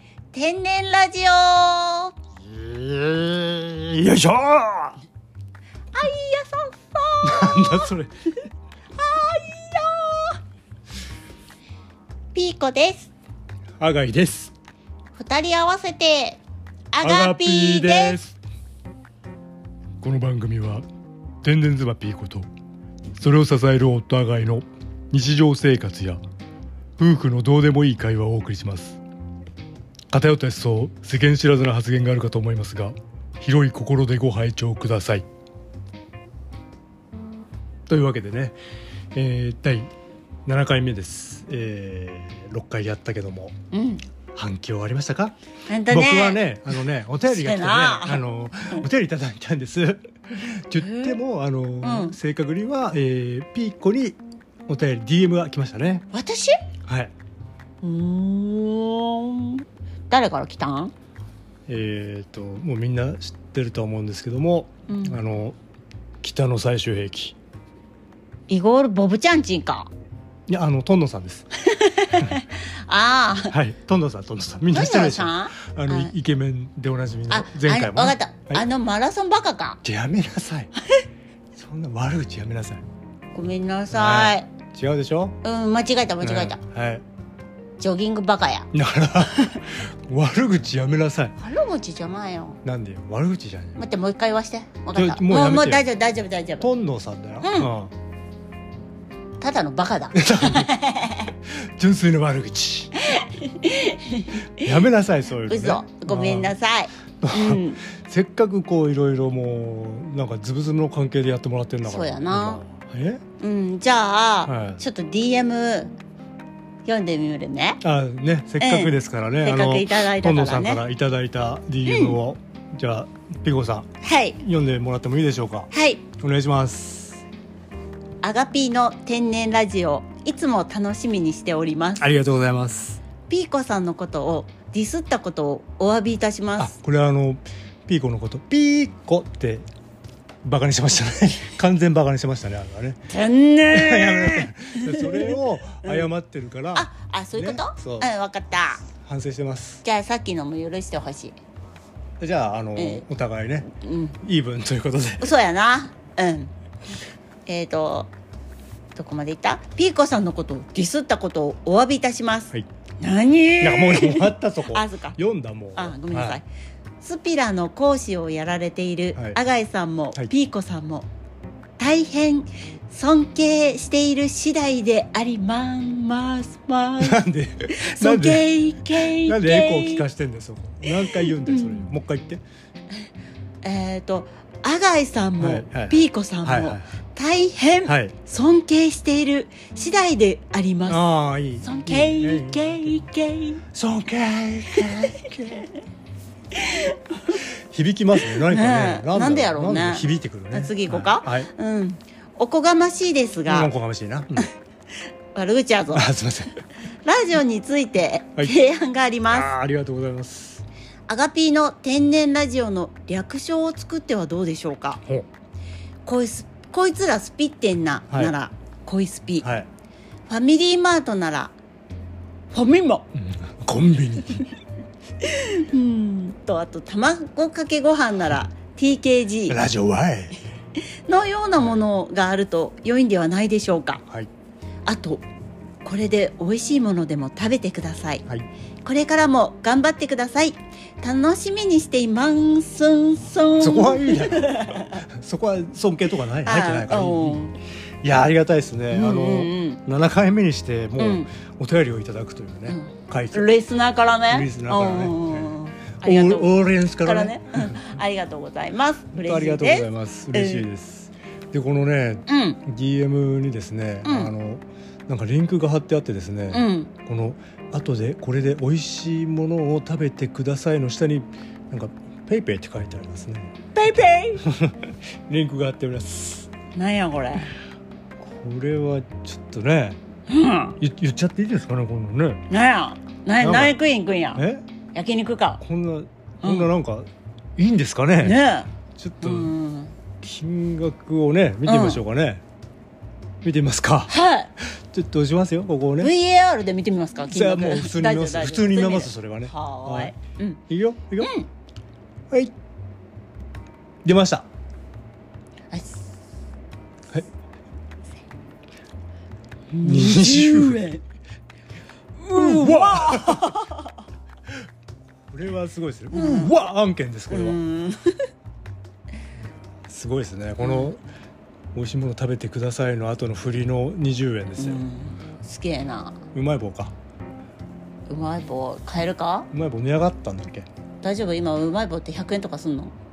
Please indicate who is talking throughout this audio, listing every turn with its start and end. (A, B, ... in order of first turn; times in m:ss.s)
0:00.3-0:02.1 A
0:02.4-0:05.0 B
0:05.9-0:07.9 A
0:07.2-0:08.1 B
0:09.0-0:10.4 A
0:12.3-0:13.1 A
0:13.8-0:14.5 B
0:15.2-0:16.4 A
0:16.9-0:18.2 A
0:17.0-0:18.4 B
0:20.0-0:20.8 B
0:21.4-0:22.5 B
0:23.2-0:26.2 B
0:27.0-0:29.0 B
0:30.1-0:35.3 B
0:37.9-0:38.6 B
0:39.1-0:39.9 B
0:40.4-0:43.6 B
0:43.7-0:44.0 A
0:44.4-0:45.3 B
0:45.7-0:46.6 A
0:45.9-0:56.0 B
0:47.2-0:48.8 A
0:50.8-0:51.2 A
0:51.8-0:52.2 A
0:56.1-0:56.6 A
0:56.8-0:57.1 B
0:57.8-1:00.9 A
1:01.7-1:05.6 B
1:04.9-1:05.2 A
1:06.2-1:07.4 B
1:08.5-1:09.9 A
1:10.5-1:11.5 B
1:11.6-1:13.6 A
1:13.5-1:18.6 B
1:14.7-1:16.1 A
1:17.3-1:19.8 A
1:19.8-1:20.7 B
1:21.6-1:22.8 B
1:23.3-1:24.5 A
1:23.9-1:25.4 B
1:25.4-1:26.6 A
1:26.2-1:27.0 B
1:27.8-1:28.7 A
1:28.7-1:31.3 B
1:31.4-1:32.6 A
1:32.6-1:33.8 B
1:33.8-1:36.7 A
1:34.9-1:35.9 B
1:36.6-1:37.9 B
1:37.4-1:37.7 A
1:39.4-1:41.3 A
1:40.1-1:40.7 B
1:41.4-1:43.0 B
1:43.0-1:44.7 A
1:44.5-1:46.5 B
1:45.4-1:47.8 A
1:47.2-1:53.2 B
1:51.8-1:52.6 A
1:53.4-1:56.0 A
1:54.5-1:54.8 B
1:56.8-1:57.8 A
1:57.8-2:03.9 B
1:58.6-2:00.8 A
2:01.9-2:02.2 A
2:04.0-2:04.4 A
2:04.4-2:07.2 B
2:05.7-2:06.0 A
2:08.2-2:12.1 A
2:12.0-2:13.0 B
2:13.3-2:16.7 A
2:16.6-2:19.7 B
2:20.4-2:23.0 B
2:23.1-2:26.1 A
2:23.7-2:28.1 B
2:26.7-2:28.8 A
2:29.0-2:29.8 B
2:29.8-2:31.4 A
2:32.2-2:33.7 B
2:32.8-2:33.0 A
2:33.7-2:34.2 A
2:34.2-2:35.3 B
2:35.2-2:36.5 A
2:37.5-2:38.1 A
2:38.9-2:45.2 A
2:43.6-2:46.4 B
2:45.8-2:46.5 A
2:47.0-2:51.1 A
2:51.8-3:00.1 A
2:57.0-3:02.4 B
3:00.8-3:01.9 A
3:03.6-3:11.0 A
3:05.4-3:06.9 B
3:07.9-3:08.2 B
3:10.9-3:13.0 B
3:11.6-3:13.6 A
3:13.7-3:15.7 B
3:14.7-3:15.3 A
3:16.5-3:17.4 A
3:17.5-3:21.5 B
3:18.2-3:23.7 A
3:23.5-3:24.5 B
3:25.3-3:26.1 A
3:25.9-3:26.6 B
3:27.0-3:29.5 A
3:29.3-3:30.7 B
3:31.1-3:35.0 A
3:36.0-3:39.5 A
3:39.4-3:39.7 B
3:40.3-3:41.5 A
3:42.5-3:43.1 A
3:43.1-3:44.5 B
3:45.2-3:49.6 A
3:49.5-3:50.4 B
3:51.1-3:54.0 A
3:54.9-3:55.2 A
3:55.8-3:58.2 A
3:58.8-4:05.0 A
4:03.6-4:07.4 B
4:06.4-4:07.6 A
4:08.0-4:13.5 B
4:08.9-4:09.8 A
4:11.0-4:11.3 A
4:12.7-4:20.7 A
4:14.3-4:17.8 B
4:19.1-4:33.5 B
4:22.3-4:22.6 A
4:24.0-4:24.3 A
4:26.5-4:26.9 A
4:33.8-4:34.4 A
4:34.4-4:36.5 B
4:36.7-4:37.5 A
4:38.2-4:40.0 B
4:40.3-4:40.8 A
4:40.8-4:42.4 B
4:42.5-4:45.6 A
4:43.4-4:43.8 B
4:44.3-4:44.6 B
4:45.6-4:48.4 B
4:46.4-4:46.7 A
4:48.2-4:49.9 A
4:49.0-4:49.5 B
4:50.2-4:52.4 B
4:51.6-4:52.0 A
4:53.4-4:56.1 B
4:54.1-4:54.5 A
4:56.0-5:00.6 A
4:57.2-5:00.1 B
5:00.7-5:01.3 B
5:01.2-5:01.5 A
5:04.0-5:04.5 B
5:05.7-5:06.1 A
5:09.7-5:11.0 A
5:09.8-5:10.9 B
5:12.2-5:14.0 A
5:12.3-5:13.6 B
5:15.3-5:17.6 B
5:16.1-5:16.6 A
5:17.3-5:18.2 A
5:19.9-5:21.0 B
5:20.6-5:20.9 A
5:21.7-5:24.8 B
5:24.6-5:26.2 A
5:26.3-5:26.9 B
5:28.1-5:29.5 A
5:29.5-5:30.7 B
5:31.0-5:32.9 A